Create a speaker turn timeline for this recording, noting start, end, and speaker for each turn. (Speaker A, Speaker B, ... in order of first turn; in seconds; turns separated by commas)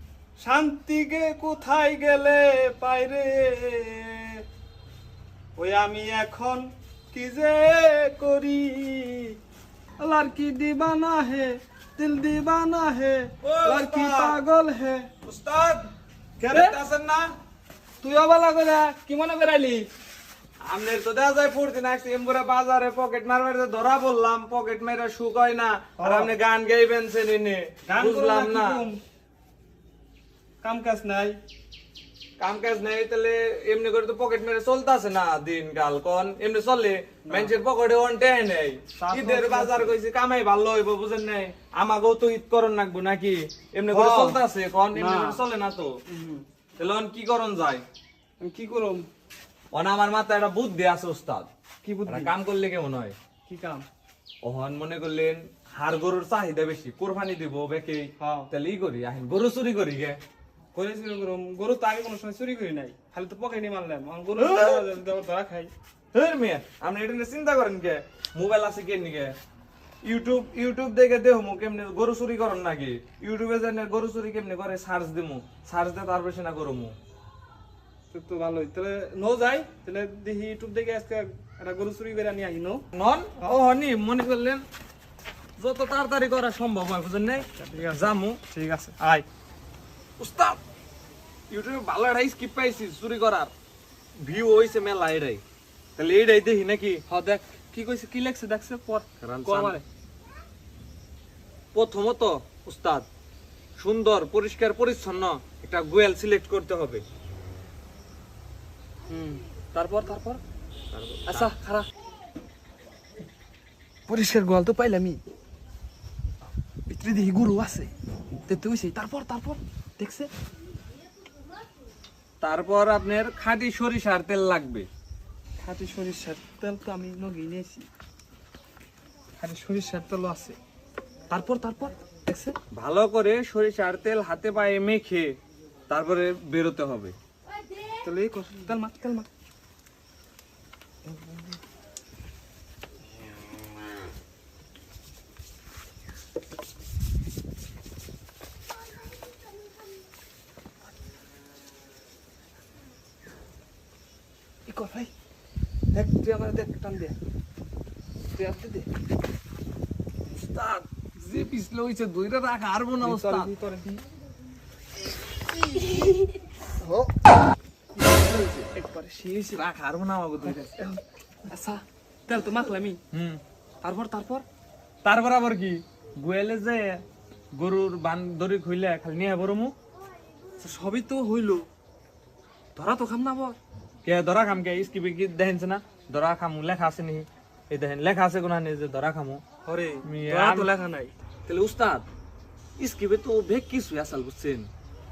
Speaker A: 0.4-4.4, Speaker A: 5.6-9.3, Speaker A: 10.0-15.1, Speaker B: 13.4-14.4, Speaker B: 15.2-15.9, Speaker A: 16.4-16.8, Speaker B: 16.5-17.3, Speaker A: 18.0-19.9, Speaker B: 20.6-28.9, Speaker A: 26.0-26.3, Speaker A: 27.9-29.0, Speaker A: 30.6-31.4, Speaker B: 32.4-46.0, Speaker A: 37.3-37.5, Speaker A: 39.0-39.9, Speaker A: 43.9-44.4, Speaker A: 44.9-45.4, Speaker A: 46.1-46.5, Speaker B: 46.8-47.8, Speaker A: 48.4-49.1, Speaker B: 49.7-51.5, Speaker A: 51.8-52.3, Speaker B: 52.1-53.1, Speaker A: 53.5-53.9, Speaker B: 54.4-60.2, Speaker A: 58.2-58.5, Speaker A: 60.7-65.7, Speaker B: 64.4-64.9, Speaker B: 66.1-69.3, Speaker B: 70.0-77.0, Speaker A: 78.1-82.8, Speaker B: 82.9-84.6, Speaker B: 85.6-88.4, Speaker A: 87.6-89.2, Speaker B: 90.2-90.6, Speaker B: 91.5-93.5, Speaker B: 94.2-95.4, Speaker B: 96.0-97.0, Speaker A: 97.1-99.8, Speaker B: 99.2-99.8, Speaker B: 101.7-103.1, Speaker B: 103.8-107.0, Speaker A: 109.1-110.4, Speaker B: 110.9-111.5, Speaker A: 111.3-111.9, Speaker A: 114.1-115.2, Speaker A: 116.9-117.9, Speaker A: 118.5-120.3, Speaker B: 122.4-124.9, Speaker A: 125.6-127.9, Speaker A: 129.4-130.6, Speaker A: 131.3-132.6, Speaker B: 132.7-135.3, Speaker B: 135.9-137.1, Speaker A: 138.0-139.3, Speaker A: 154.7-155.1, Speaker A: 155.9-157.2, Speaker A: 158.3-158.9, Speaker B: 160.3-163.5, Speaker A: 163.0-164.0, Speaker A: 168.0-169.6, Speaker B: 169.5-170.8, Speaker A: 170.5-173.0, Speaker B: 173.1-173.4, Speaker A: 173.8-174.4, Speaker B: 175.0-177.0, Speaker B: 177.5-179.7, Speaker A: 180.6-181.7, Speaker A: 182.7-183.6, Speaker B: 184.0-189.4, Speaker A: 189.6-191.1, Speaker B: 190.0-190.7, Speaker B: 191.4-192.1, Speaker B: 192.8-194.7